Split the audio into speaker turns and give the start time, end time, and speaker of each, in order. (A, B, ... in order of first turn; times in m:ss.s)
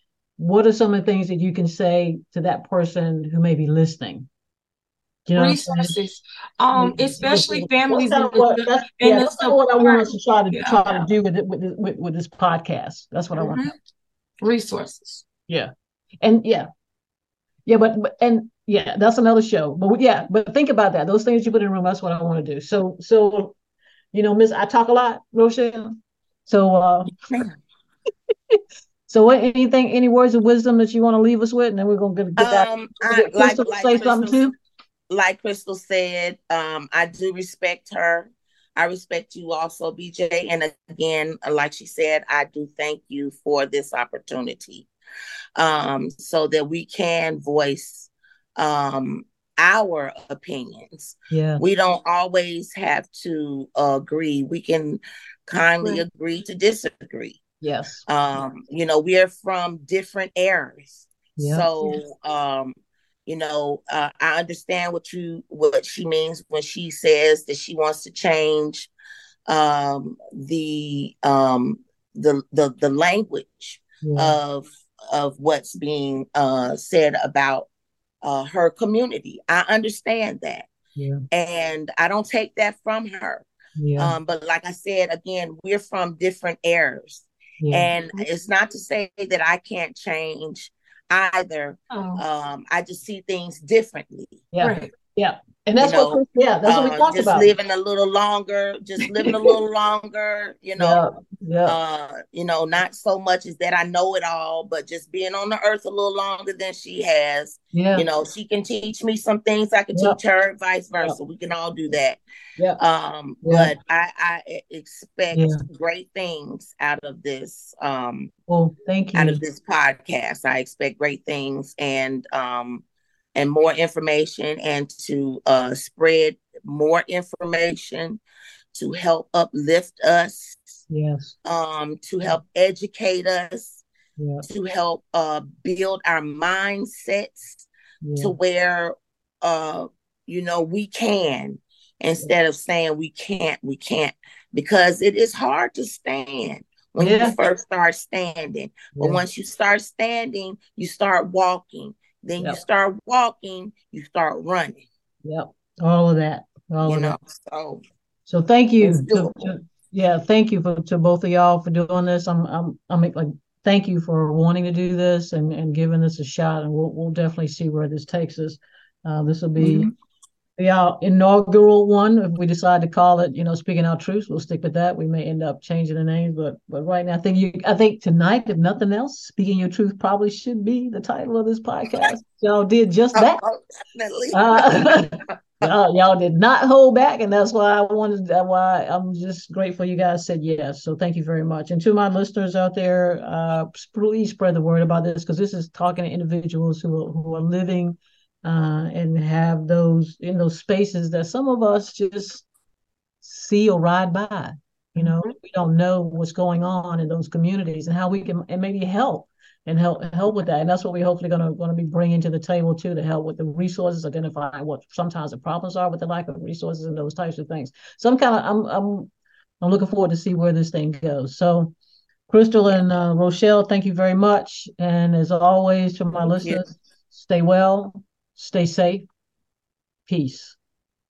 0:00.4-0:04.3 A
0:05.3-0:05.9 A
0:05.4-0:11.0 B
0:06.7-0:13.6 A
0:13.3-0:13.7 B
0:14.4-0:15.2 B
0:16.2-0:16.7 A
0:17.6-0:23.6 A
0:24.1-0:27.1 A
0:29.1-0:34.5 A
0:32.4-0:34.4 C
0:35.1-0:44.9 C
0:45.6-0:57.4 C
0:51.3-0:51.6 A
0:57.6-0:58.0 A
0:58.1-1:08.9 C
1:01.4-1:01.7 A
1:09.5-1:17.7 C
1:14.0-1:14.4 A
1:18.2-1:20.7 C
1:21.0-1:21.2 A
1:21.3-1:23.4 C
1:23.8-1:24.2 A
1:24.0-1:34.4 C
1:27.6-1:27.9 A
1:31.9-1:32.2 B
1:34.5-1:37.5 A
1:34.6-1:34.9 B
1:35.8-1:41.0 C
1:40.8-1:41.8 A
1:41.6-1:52.2 C
1:47.7-1:48.0 A
1:49.9-1:50.2 A
1:52.8-1:58.3 C
1:53.4-1:53.7 A
1:55.3-1:55.6 A
1:58.5-1:59.4 A
1:59.1-2:02.8 C
2:03.3-2:08.2 C
2:08.7-2:10.8 C
2:10.9-2:11.4 A
2:11.4-2:13.8 C
2:14.2-2:14.4 A
2:14.4-2:17.7 C
2:18.0-2:18.4 A
2:18.2-2:34.8 C
2:27.0-2:27.4 A
2:28.9-2:29.2 A
2:35.2-2:37.2 A
2:36.8-2:37.8 C
2:38.2-2:49.9 A
2:38.8-2:39.5 C
2:49.6-2:49.9 C
2:50.6-3:03.4 A
3:03.1-3:05.1 C
3:04.3-3:22.4 A
3:23.2-3:41.7 A
3:25.0-3:25.3 B
3:42.3-3:49.1 A
3:46.3-3:46.6 C
3:50.0-3:50.6 A